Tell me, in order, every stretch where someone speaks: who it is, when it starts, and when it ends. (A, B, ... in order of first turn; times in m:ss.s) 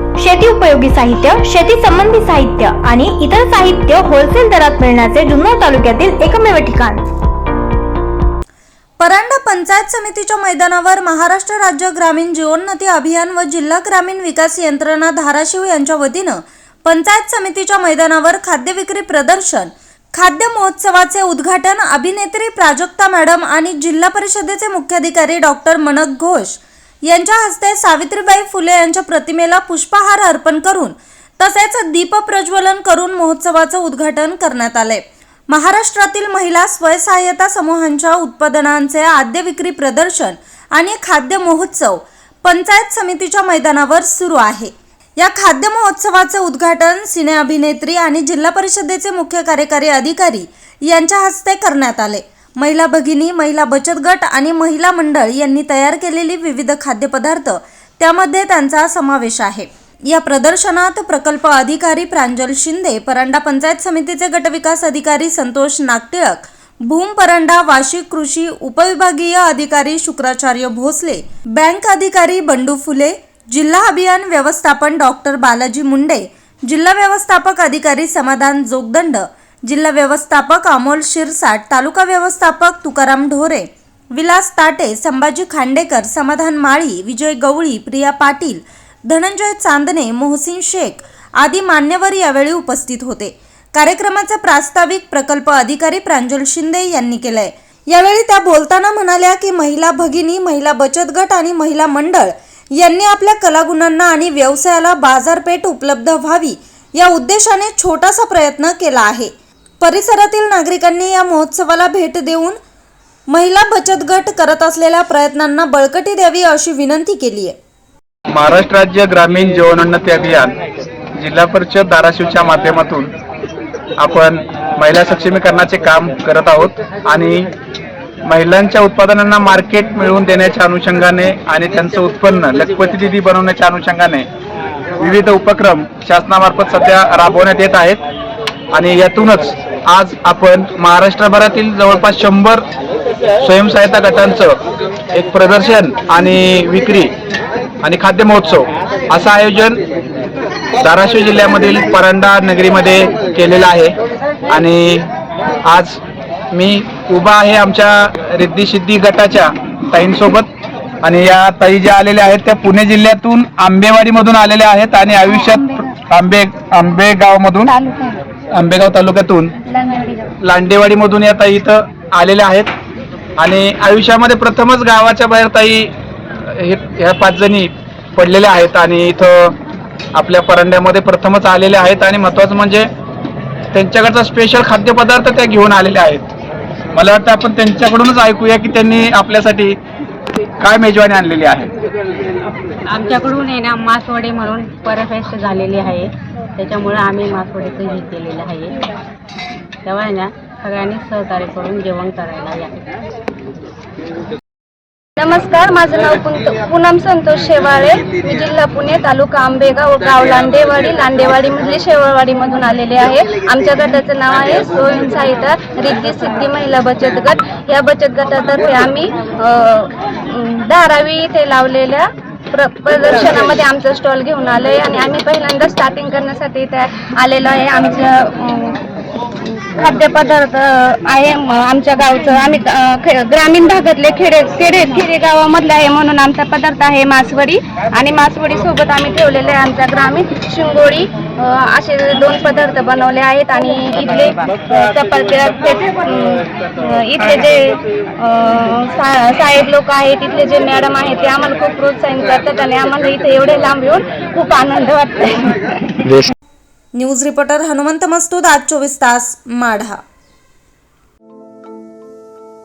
0:00.2-0:07.1 A
0:09.0-1:52.6 B
1:53.3-1:57.6 B
1:58.3-2:00.5 C
2:01.1-2:03.1 C
2:04.0-2:07.5 C
2:08.2-2:14.3 C
2:15.0-2:18.0 C
2:18.7-2:22.6 C
2:23.4-2:24.6 C
2:25.1-2:27.1 C
2:27.8-2:29.8 C
2:30.8-2:33.9 C
2:34.5-2:35.1 C
2:35.6-2:36.0 C
2:36.5-2:40.5 C
2:41.0-2:47.7 C
2:47.7-2:48.2 D
2:48.5-2:49.5 C
2:49.7-2:50.3 D
2:50.4-2:52.7 C
2:53.4-2:59.5 C
3:00.1-3:02.9 C
3:03.7-3:06.2 C
3:06.9-3:09.8 C
3:10.6-3:11.7 C
3:12.9-3:18.7 E
3:19.8-3:22.9 E
3:25.2-3:48.8 D
3:49.4-4:15.6 D
4:16.9-4:20.0 B